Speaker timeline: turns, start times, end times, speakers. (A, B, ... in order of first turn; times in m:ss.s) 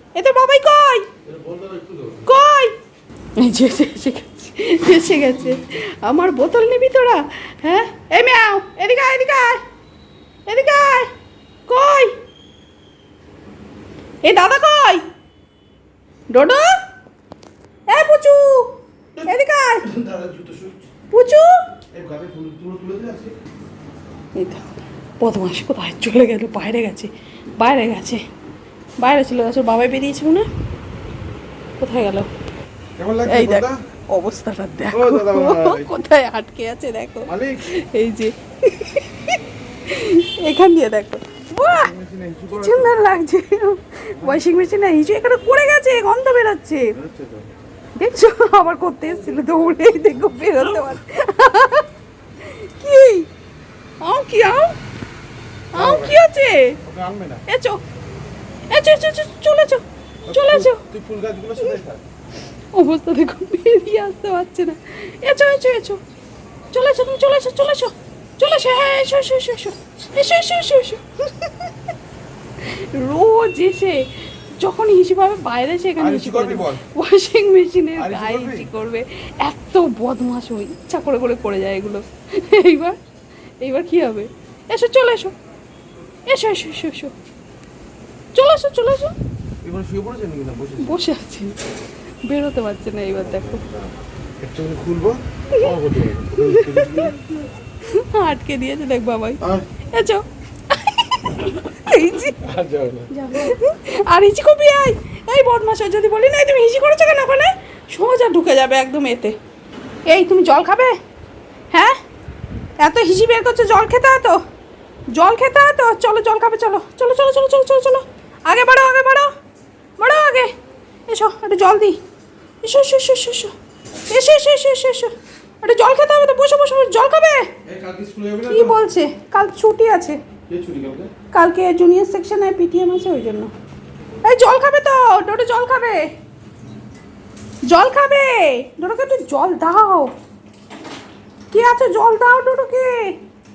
0:00.2-0:01.1 A
0:01.2-0:02.2 B
0:02.3-0:02.7 A
0:03.4-0:09.6 A
0:10.5-0:11.1 A
0:11.7-0:12.1 A
0:14.2-0:15.0 A
0:16.3-0:16.7 A
0:17.9-0:18.7 A
0:19.2-0:19.9 A
0:19.9-0:20.9 B
0:21.1-0:21.6 A
0:21.9-0:23.4 B
0:24.4-0:24.6 A
0:25.2-0:28.2 A
0:29.0-0:30.5 A
0:31.8-0:32.3 A
0:33.0-0:33.8 B
0:33.3-0:41.9 A
0:34.9-0:36.0 B
0:37.3-0:37.6 B
0:41.7-0:43.0 B
0:42.5-0:46.9 A
0:47.0-0:47.5 B
0:48.0-0:51.9 A
0:52.4-0:53.3 A
0:54.0-0:54.8 A
0:55.7-0:56.2 B
0:55.7-0:56.8 A
0:56.8-0:57.4 B
0:57.5-0:57.8 A
0:58.7-1:00.8 A
1:00.3-1:02.0 B
1:02.7-1:06.0 A
1:06.7-1:11.8 A
1:12.6-1:14.0 A
1:14.6-1:23.0 A
1:16.0-1:16.8 B
1:18.0-1:18.7 B
1:23.6-1:25.3 A
1:26.3-1:27.1 A
1:28.4-1:29.2 A
1:29.6-1:31.0 B
1:30.8-1:31.5 A
1:32.3-1:33.6 A
1:33.3-1:33.9 B
1:34.4-1:37.2 B
1:35.5-1:35.8 A
1:36.3-1:37.2 A
1:37.8-1:39.4 A
1:39.9-1:42.4 A
1:42.4-1:43.1 B
1:43.1-1:49.4 A
1:50.1-1:50.9 A
1:51.7-1:52.0 A
1:52.8-1:54.4 A
1:55.1-1:59.3 A
2:00.0-2:00.5 A
2:01.1-2:02.0 A
2:02.6-2:03.5 A
2:04.1-2:07.5 A
2:07.7-2:08.8 B
2:08.5-2:10.2 A
2:10.5-2:11.1 B
2:11.3-2:13.5 A
2:14.2-2:16.1 A
2:17.7-2:20.1 A
2:21.5-2:23.2 A